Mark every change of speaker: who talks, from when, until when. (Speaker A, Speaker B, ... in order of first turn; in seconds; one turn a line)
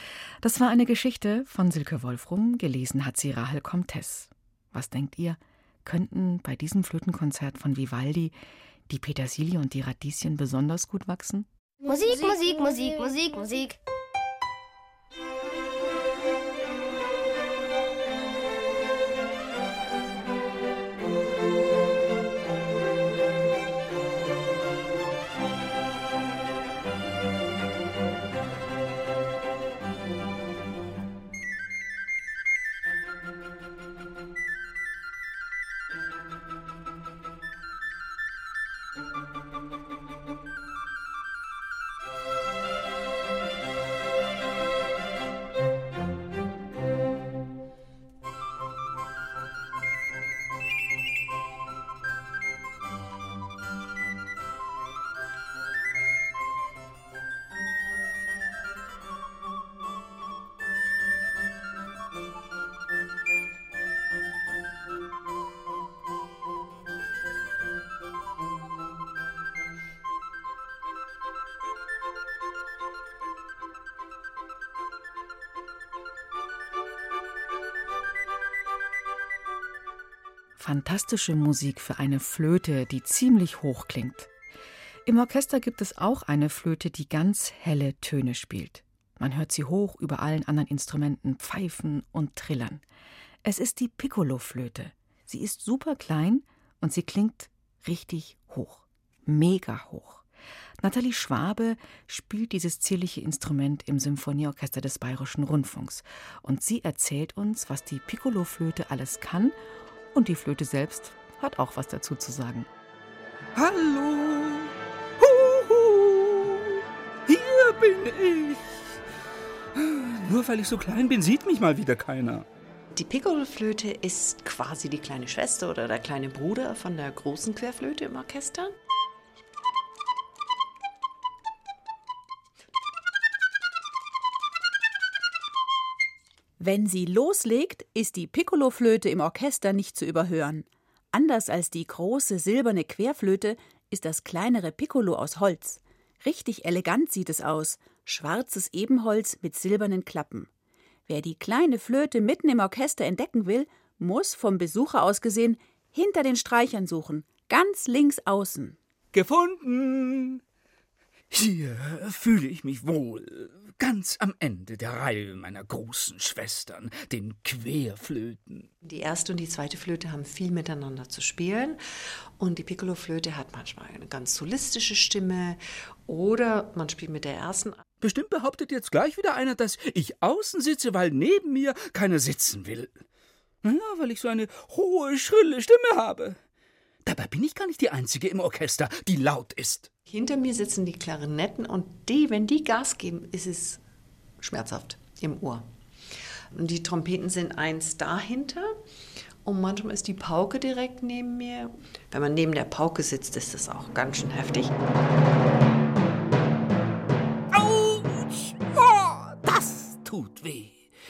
Speaker A: 0.4-8.3
Speaker A: 8.9-11.5
Speaker B: 11.8-13.8
Speaker A: 80.6-84.3
Speaker A: 85.0-92.8
Speaker A: 93.4-100.2
Speaker A: 100.8-109.6
Speaker A: 110.1-112.7
Speaker C: 113.5-119.0
Speaker C: 119.7-122.5
Speaker D: 122.9-128.7
Speaker E: 136.6-150.5
Speaker E: 151.1-158.8
Speaker C: 159.1-160.4
Speaker C: 161.3-168.7
Speaker D: 168.8-171.8
Speaker D: 172.4-177.8
Speaker C: 178.0-183.0
Speaker C: 183.6-186.4
Speaker C: 187.1-189.9
Speaker D: 190.1-193.8
Speaker D: 194.4-195.6
Speaker D: 196.5-198.7
Speaker D: 199.4-204.7
Speaker C: 207.5-210.9